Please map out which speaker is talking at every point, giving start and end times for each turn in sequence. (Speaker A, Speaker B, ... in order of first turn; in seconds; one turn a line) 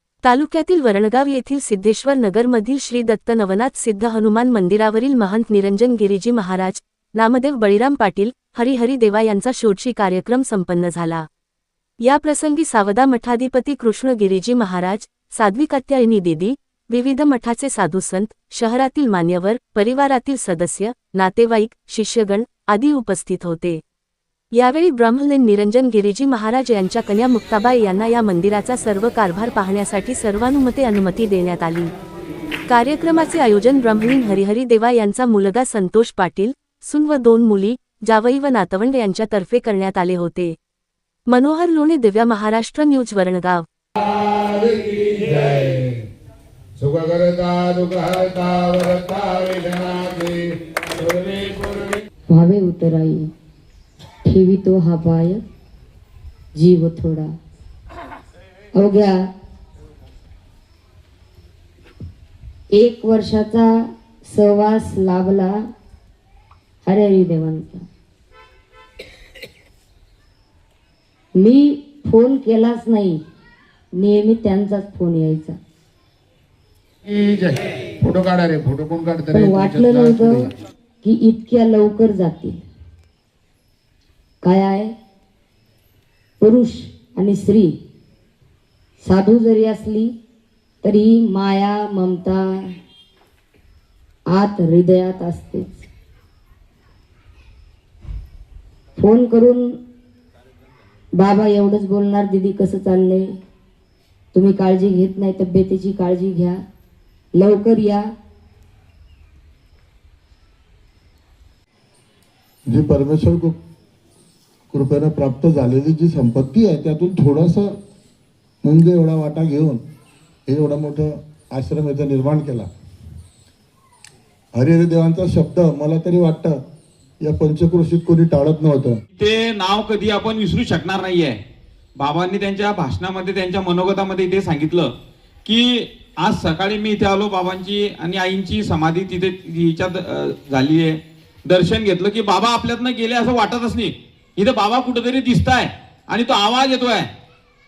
Speaker A: 0.2-11.2
Speaker A: 12.0-23.8
Speaker A: 24.6-31.9
Speaker A: 32.7-40.6
Speaker A: 41.3-43.6
Speaker B: 44.2-46.0
Speaker B: 46.8-50.4
Speaker B: 51.0-52.0
Speaker C: 52.3-53.3
Speaker C: 54.2-55.4
Speaker C: 56.5-57.3
Speaker C: 58.7-59.2
Speaker C: 62.7-63.7
Speaker C: 64.3-65.6
Speaker C: 66.8-67.8
Speaker C: 71.4-73.2
Speaker C: 74.0-75.6
Speaker B: 77.1-80.5
Speaker C: 79.3-80.5
Speaker C: 81.0-82.6
Speaker C: 84.4-84.9
Speaker C: 86.4-87.8
Speaker C: 89.0-90.1
Speaker C: 90.8-92.5
Speaker C: 94.3-95.9
Speaker C: 99.0-99.8
Speaker C: 101.2-103.3
Speaker C: 104.3-106.6
Speaker C: 107.3-108.1
Speaker D: 112.7-113.6
Speaker D: 114.7-117.8
Speaker D: 118.6-119.8
Speaker D: 120.5-122.7
Speaker D: 124.5-126.6
Speaker D: 127.2-129.0
Speaker E: 129.2-131.4
Speaker E: 132.0-134.9
Speaker E: 135.5-147.1